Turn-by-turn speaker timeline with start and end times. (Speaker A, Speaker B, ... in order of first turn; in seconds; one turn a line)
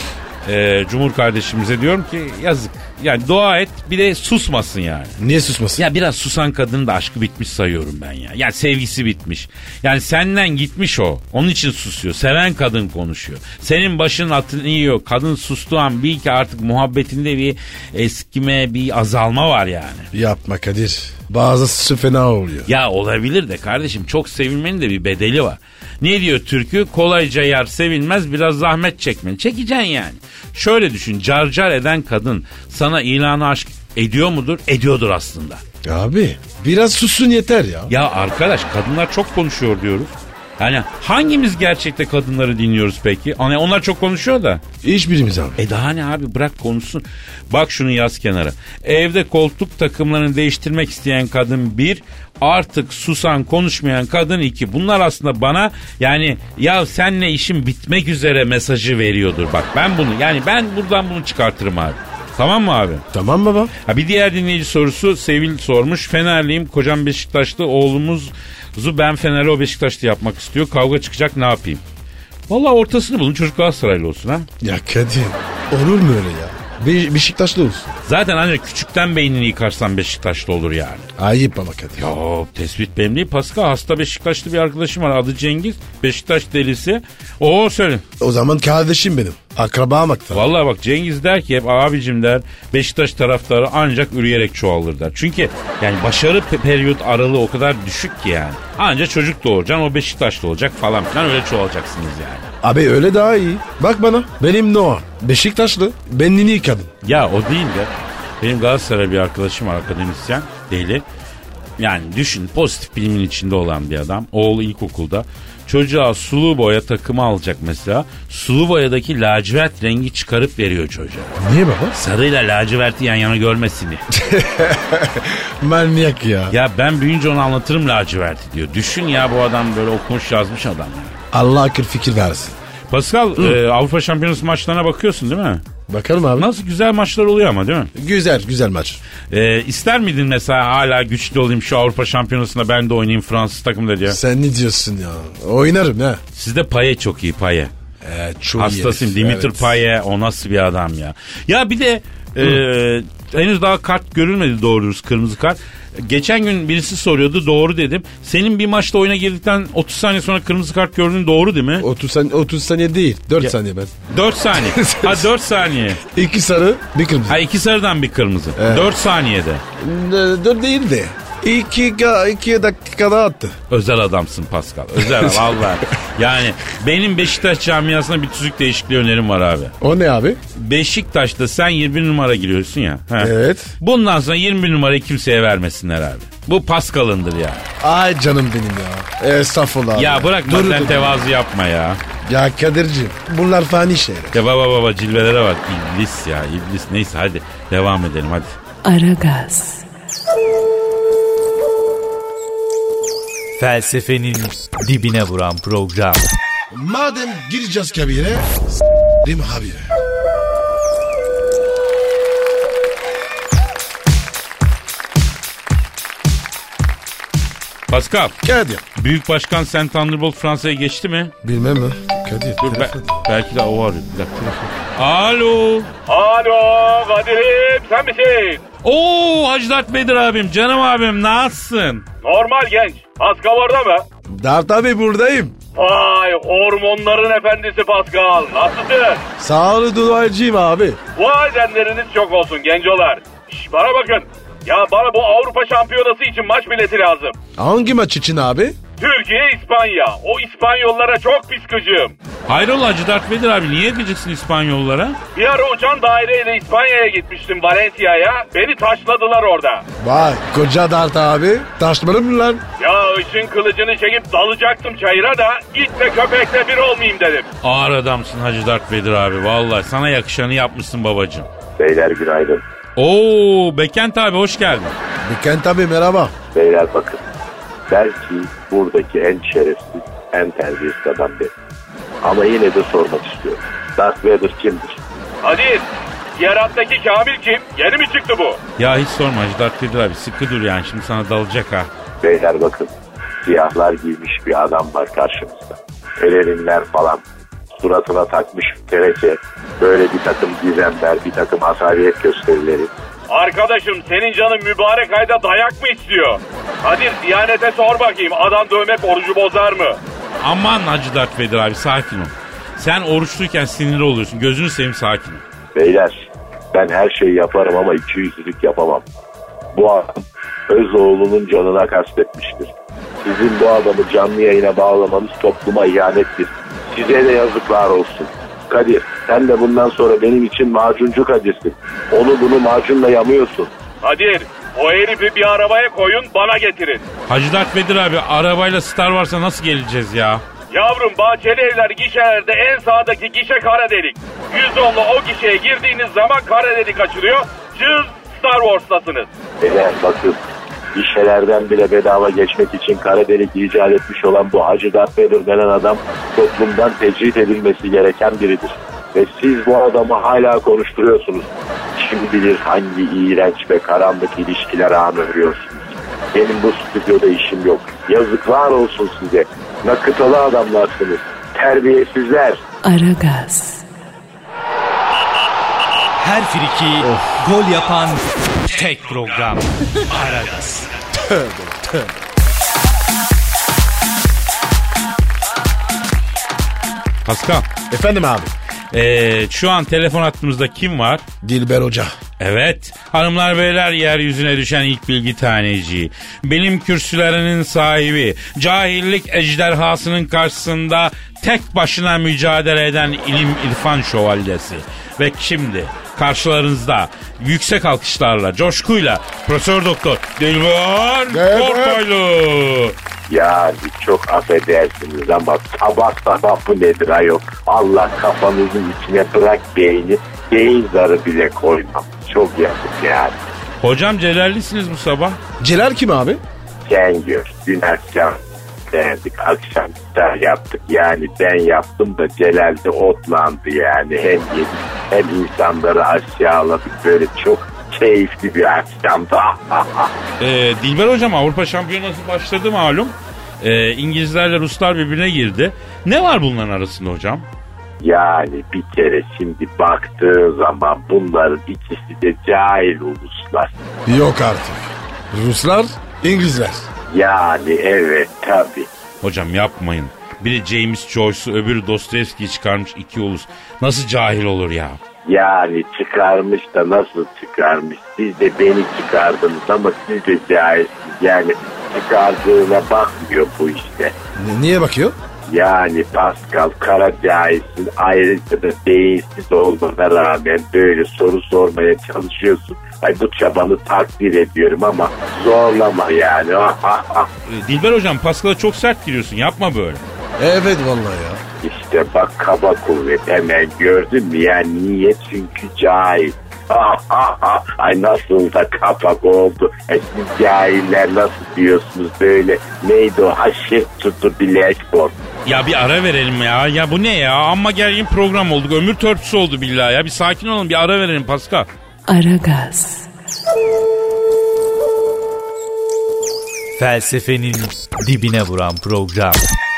Speaker A: 0.4-5.2
Speaker B: 5.2-5.8
Speaker A: 5.8-20.1
Speaker B: 20.1-22.7
Speaker A: 22.7-35.6
Speaker B: 35.8-37.9
Speaker A: 37.9-44.6
Speaker B: 44.8-45.6
Speaker A: 45.6-63.0
Speaker B: 63.1-63.7
Speaker A: 63.9-71.8
Speaker A: 72.5-74.5
Speaker B: 74.6-77.9
Speaker A: 78.0-81.1
Speaker B: 81.2-82.1
Speaker A: 82.0-88.0
Speaker B: 88.2-90.5
Speaker A: 90.3-102.5
Speaker B: 102.6-106.9
Speaker A: 107.0-111.0
Speaker A: 111.8-121.4
Speaker B: 121.4-122.0
Speaker A: 122.0-124.0
Speaker B: 124.1-126.5
Speaker A: 126.5-131.2
Speaker B: 131.3-132.6
Speaker A: 132.9-135.6
Speaker B: 135.9-136.5
Speaker A: 136.3-137.9
Speaker B: 137.9-139.0
Speaker A: 139.3-144.2
Speaker B: 144.1-146.2
Speaker A: 146.3-147.7
Speaker B: 148.0-149.8
Speaker A: 148.6-161.8
Speaker B: 161.8-163.9
Speaker A: 164.1-166.0
Speaker B: 164.5-165.3
Speaker B: 166.0-167.4
Speaker A: 167.3-169.6
Speaker B: 168.6-168.9
Speaker B: 169.8-173.6
Speaker A: 173.7-179.7
Speaker B: 175.0-175.7
Speaker B: 179.8-180.4
Speaker A: 180.6-187.6
Speaker B: 183.2-183.7
Speaker B: 187.8-191.2
Speaker A: 189.9-192.0
Speaker B: 192.2-194.4
Speaker A: 194.3-198.6
Speaker C: 198.8-199.8
Speaker D: 203.6-206.3
Speaker B: 206.7-208.6
Speaker B: 209.2-209.9
Speaker A: 217.9-218.4
Speaker B: 218.4-218.8
Speaker A: 218.9-221.3
Speaker B: 221.4-223.1
Speaker A: 222.6-225.9
Speaker B: 224.4-224.7
Speaker E: 226.1-228.6
Speaker A: 228.8-232.0
Speaker E: 232.2-234.0
Speaker B: 234.3-235.5
Speaker E: 235.7-239.2
Speaker B: 239.4-241.0
Speaker E: 241.2-247.3
Speaker B: 247.6-248.8
Speaker E: 249.0-252.1
Speaker A: 252.5-255.2
Speaker E: 255.3-259.9
Speaker B: 260.0-262.6
Speaker E: 262.8-267.5
Speaker A: 267.6-271.5
Speaker F: 271.8-272.6
Speaker A: 272.9-274.9
Speaker B: 275.2-276.3
Speaker F: 276.5-277.2
Speaker F: 277.9-281.5
Speaker F: 282.2-285.0
Speaker E: 285.4-288.6
Speaker A: 288.8-291.9
Speaker F: 292.2-292.9
Speaker F: 293.4-297.2
Speaker F: 297.8-302.9
Speaker E: 303.3-310.0
Speaker A: 310.3-315.4
Speaker F: 315.7-316.1
Speaker F: 316.7-319.0
Speaker F: 319.7-322.7
Speaker F: 323.2-333.7
Speaker E: 334.0-337.1
Speaker A: 337.2-340.4
Speaker E: 340.7-349.3
Speaker F: 349.6-350.4
Speaker F: 350.9-372.6
Speaker C: 372.8-373.8
Speaker D: 376.2-380.9
Speaker B: 377.0-377.3
Speaker B: 381.2-382.1
Speaker A: 387.2-387.7
Speaker B: 387.9-388.5
Speaker A: 388.9-391.2
Speaker B: 391.4-392.1
Speaker A: 392.4-412.9
Speaker B: 411.3-412.0
Speaker F: 413.3-423.4
Speaker A: 423.8-425.4
Speaker B: 425.6-426.4
Speaker F: 426.8-428.4
Speaker F: 428.9-440.1
Speaker A: 440.4-447.5
Speaker F: 448.0-453.7
Speaker B: 454.1-456.9
Speaker F: 457.1-458.9
Speaker A: 459.2-465.0
Speaker F: 465.2-474.1
Speaker B: 474.4-475.1
Speaker F: 475.5-487.3
Speaker A: 487.5-490.0
Speaker B: 490.4-491.4
Speaker F: 491.6-505.1
Speaker A: 505.4-511.7
Speaker C: 512.1-513.1
Speaker D: 516.8-519.4